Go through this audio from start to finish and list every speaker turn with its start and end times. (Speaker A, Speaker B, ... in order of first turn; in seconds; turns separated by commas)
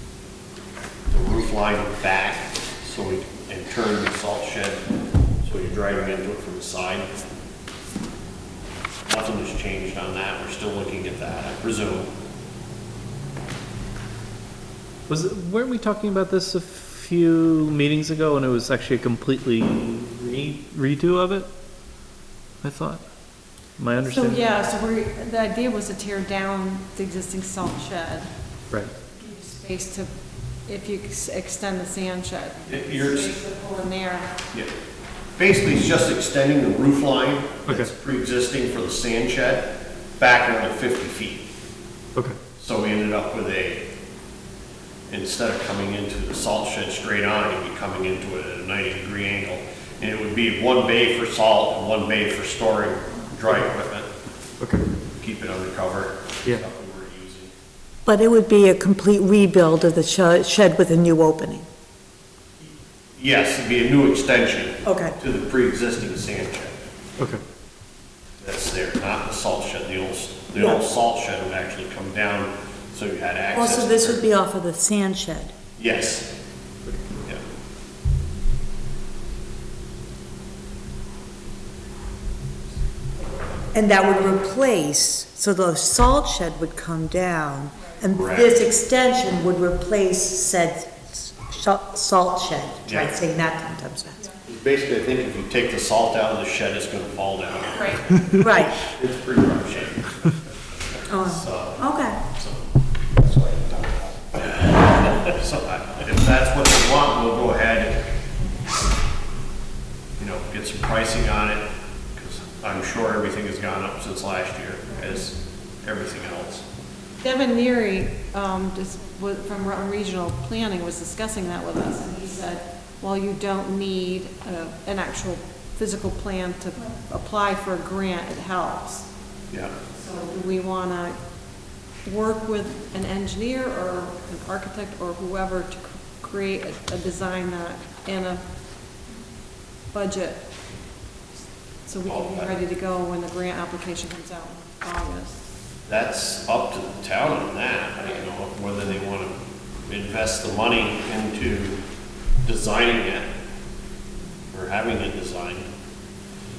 Speaker A: 1.1-4.8, Speaker A: 5.4-7.1, Speaker A: 9.1-12.1, Speaker B: 15.1-21.5, Speaker B: 22.6-23.0, Speaker B: 23.8-24.5, Speaker C: 24.0-28.3, Speaker C: 29.1-30.1, Speaker C: 30.7-34.3, Speaker A: 32.7-33.4, Speaker A: 35.4-41.5, Speaker B: 37.7-37.9, Speaker A: 42.6-43.9, Speaker A: 45.1-54.1, Speaker A: 55.2-57.5, Speaker D: 58.0-61.7, Speaker A: 62.6-66.8, Speaker D: 64.9-65.2, Speaker A: 68.4-74.2, Speaker D: 70.6-70.8, Speaker D: 73.5-75.5, Speaker A: 75.8-76.3, Speaker D: 83.7-94.3, Speaker A: 88.1-88.7, Speaker A: 92.9-93.2, Speaker A: 94.5-108.0, Speaker D: 98.4-98.8, Speaker D: 101.1-102.2, Speaker A: 110.2-111.6, Speaker A: 112.2-116.6, Speaker C: 117.2-129.1, Speaker C: 129.9-131.2, Speaker C: 132.1-138.4, Speaker C: 139.9-140.4, Speaker C: 141.9-145.4, Speaker A: 142.1-142.6, Speaker A: 145.9-149.3, Speaker A: 149.9-151.8, Speaker A: 152.4-153.3, Speaker A: 154.5-155.7